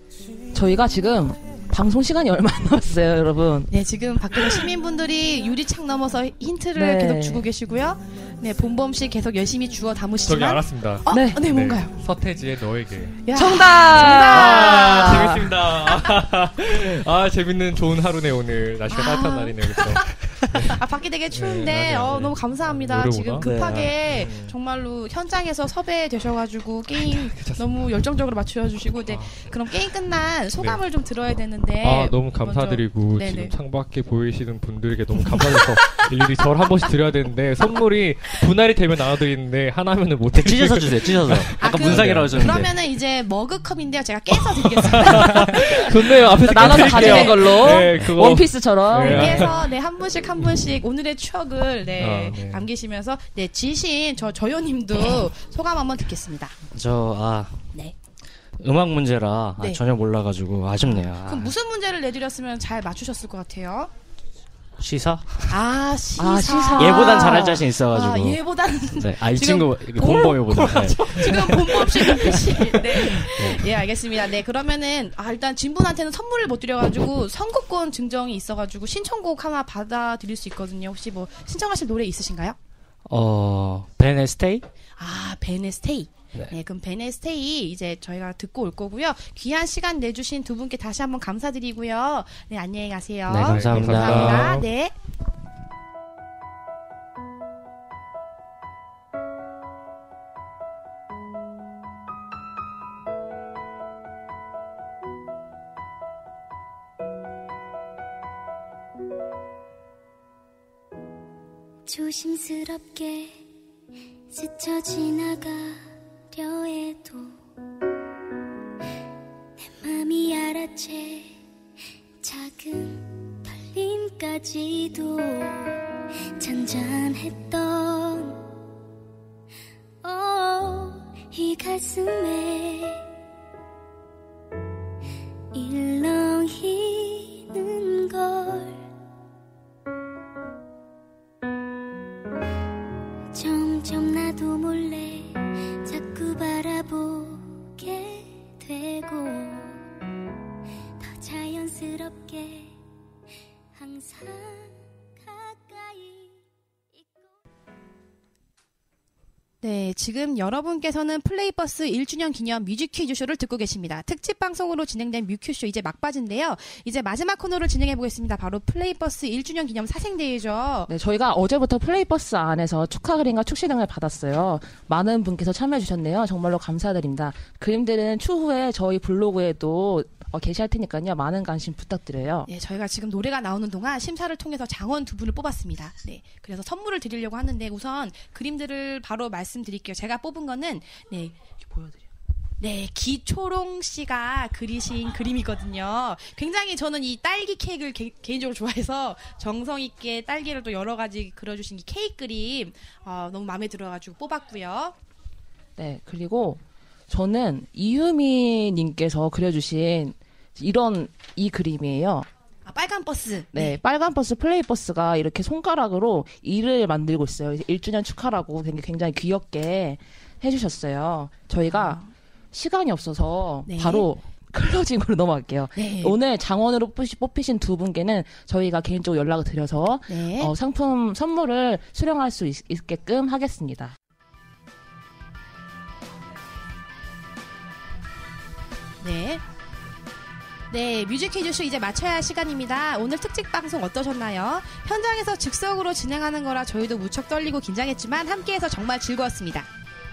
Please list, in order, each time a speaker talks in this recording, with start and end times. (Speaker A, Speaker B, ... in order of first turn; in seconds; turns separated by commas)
Speaker A: 0.5-3.7, Speaker B: 3.7-11.9, Speaker A: 6.8-7.5, Speaker C: 10.2-13.2, Speaker A: 11.1-11.4, Speaker B: 13.3-15.5, Speaker A: 13.3-15.5, Speaker C: 13.9-24.6, Speaker B: 18.9-20.1, Speaker B: 20.7-33.5, Speaker D: 23.4-23.9, Speaker C: 26.9-27.9, Speaker C: 29.1-29.5, Speaker C: 30.6-30.8, Speaker C: 31.8-42.6, Speaker D: 40.3-42.7, Speaker B: 41.6-47.9, Speaker C: 44.3-49.7, Speaker A: 46.4-49.5, Speaker B: 48.9-56.5, Speaker C: 52.0-52.7, Speaker D: 56.7-57.6, Speaker D: 58.6-61.5, Speaker B: 59.6-59.8, Speaker B: 60.8-63.9, Speaker D: 64.8-65.3, Speaker B: 65.5-82.6, Speaker A: 66.2-67.6, Speaker D: 66.8-68.4, Speaker D: 69.0-71.0, Speaker C: 70.5-73.3, Speaker D: 83.1-84.7, Speaker B: 85.0-94.9, Speaker D: 93.3-94.5, Speaker C: 93.4-94.7, Speaker E: 111.9-113.4, Speaker E: 114.3-117.4, Speaker E: 119.6-121.4, Speaker E: 122.2-125.8, Speaker E: 126.4-128.4, Speaker E: 130.0-133.1, Speaker E: 135.5-138.8, Speaker E: 143.3-149.9, Speaker E: 151.0-152.8, Speaker E: 153.8-157.3, Speaker B: 159.6-170.9, Speaker A: 170.9-182.5, Speaker B: 182.5-191.4, Speaker A: 191.6-192.0, Speaker B: 192.6-204.9, Speaker A: 205.8-212.3, Speaker B: 212.7-213.8, Speaker A: 213.5-233.9, Speaker B: 221.7-222.1, Speaker B: 223.7-224.1, Speaker B: 225.8-226.2, Speaker B: 230.1-230.5, Speaker B: 239.0-239.4, Speaker B: 240.7-249.7